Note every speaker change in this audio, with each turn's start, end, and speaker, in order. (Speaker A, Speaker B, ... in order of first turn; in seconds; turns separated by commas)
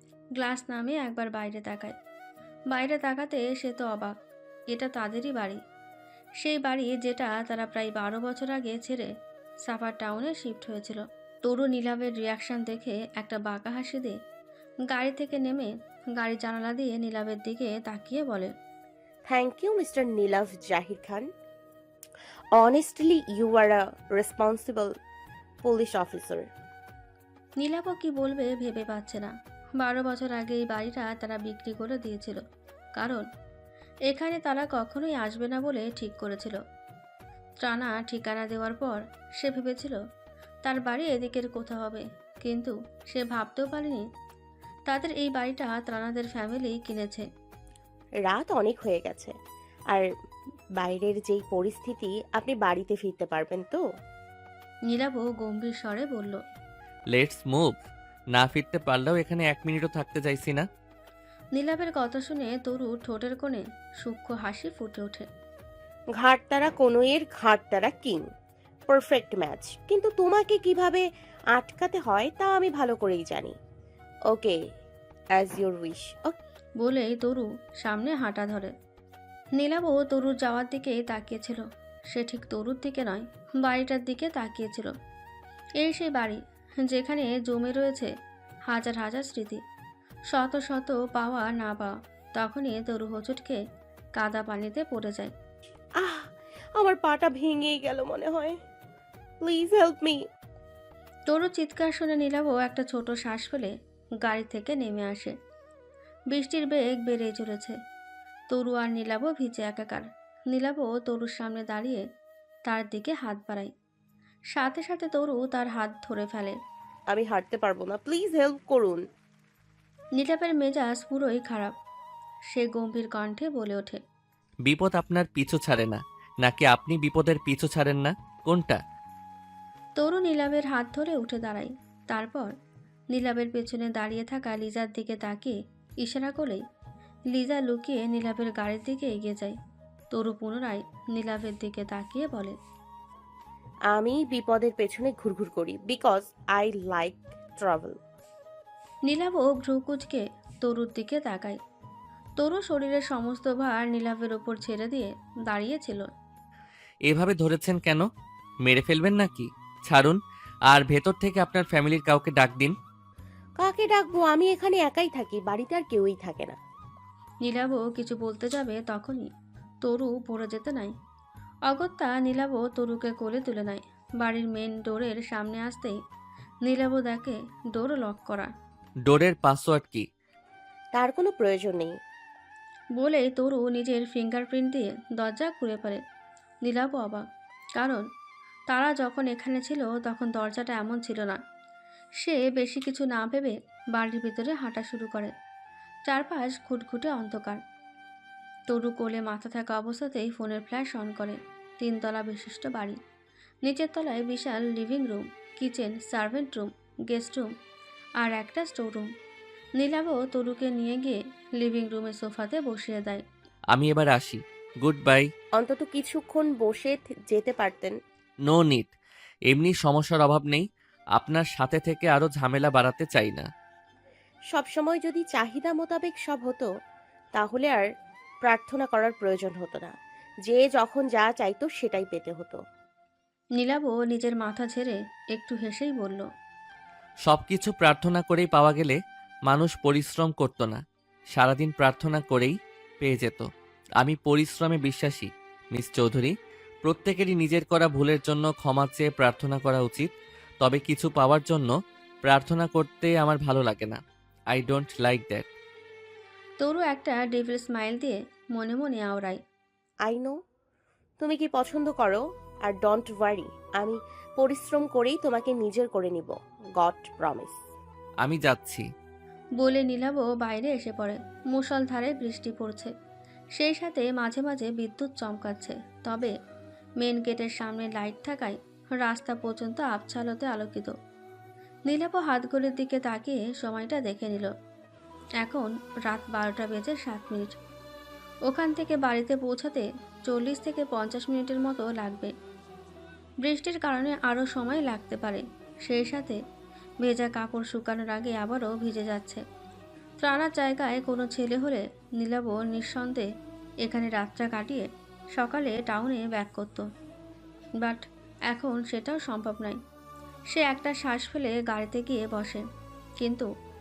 Speaker A: 0.4-1.9, Speaker A: 2.7-4.2, Speaker A: 4.7-5.6, Speaker A: 6.4-9.1, Speaker A: 9.7-14.2, Speaker A: 14.9-18.5, Speaker B: 19.3-21.3, Speaker B: 22.6-24.9, Speaker B: 25.6-26.5, Speaker A: 27.6-32.4, Speaker A: 33.0-33.3, Speaker A: 34.1-36.6, Speaker A: 37.6-40.0, Speaker A: 40.6-44.0, Speaker A: 44.9-47.3, Speaker B: 48.3-49.4, Speaker B: 50.8-53.8, Speaker A: 54.9-56.4, Speaker C: 57.1-57.8, Speaker C: 58.4-60.7, Speaker A: 61.6-65.3, Speaker B: 66.2-68.2, Speaker B: 68.9-73.6, Speaker B: 74.3-74.6, Speaker B: 75.3-76.4, Speaker A: 76.8-78.7, Speaker A: 79.6-84.9, Speaker A: 85.8-88.1, Speaker A: 88.7-89.6, Speaker A: 90.3-93.6, Speaker A: 94.2-95.3, Speaker B: 96.0-98.6, Speaker B: 99.4-100.2, Speaker A: 101.3-105.3, Speaker A: 106.3-107.8, Speaker A: 108.5-112.0, Speaker A: 112.7-113.7, Speaker A: 114.5-116.6, Speaker B: 117.1-119.0, Speaker A: 120.2-121.7, Speaker A: 122.5-124.0, Speaker C: 124.7-128.8, Speaker A: 130.0-132.5, Speaker A: 133.1-136.6, Speaker A: 137.3-139.6, Speaker A: 140.1-142.6, Speaker B: 143.9-148.0, Speaker A: 149.1-151.6, Speaker A: 152.4-156.1, Speaker C: 157.1-158.1, Speaker C: 158.7-162.8, Speaker B: 163.6-166.6, Speaker A: 167.4-169.3, Speaker A: 169.8-170.9, Speaker A: 171.7-176.0, Speaker A: 176.7-178.5, Speaker C: 179.1-180.1, Speaker B: 181.0-182.0, Speaker A: 183.0-186.0, Speaker A: 186.7-187.2, Speaker A: 187.8-188.1, Speaker A: 188.7-191.4, Speaker A: 192.2-195.3, Speaker A: 196.1-197.6, Speaker A: 198.7-203.0, Speaker A: 203.7-207.5, Speaker A: 208.2-209.1, Speaker A: 209.8-213.2, Speaker C: 213.7-215.3, Speaker B: 215.6-218.0, Speaker C: 218.5-218.9, Speaker C: 219.5-223.5, Speaker B: 224.5-226.7, Speaker B: 227.3-227.9, Speaker B: 228.4-229.9, Speaker B: 230.5-232.6, Speaker A: 233.6-236.3, Speaker C: 237.3-240.8, Speaker C: 241.3-243.5, Speaker C: 244.0-250.1, Speaker C: 250.6-254.0, Speaker C: 254.5-255.4, Speaker A: 256.6-259.4, Speaker B: 260.1-260.4, Speaker B: 261.2-267.6, Speaker C: 268.2-268.9, Speaker A: 269.6-272.9, Speaker A: 273.6-276.3, Speaker A: 277.0-280.9, Speaker A: 281.9-284.5, Speaker A: 285.4-287.6, Speaker A: 288.5-292.3, Speaker A: 293.4-296.4, Speaker A: 297.0-299.4, Speaker A: 300.2-303.3, Speaker A: 303.8-306.9, Speaker A: 307.8-309.8, Speaker A: 310.5-312.6, Speaker A: 313.2-313.5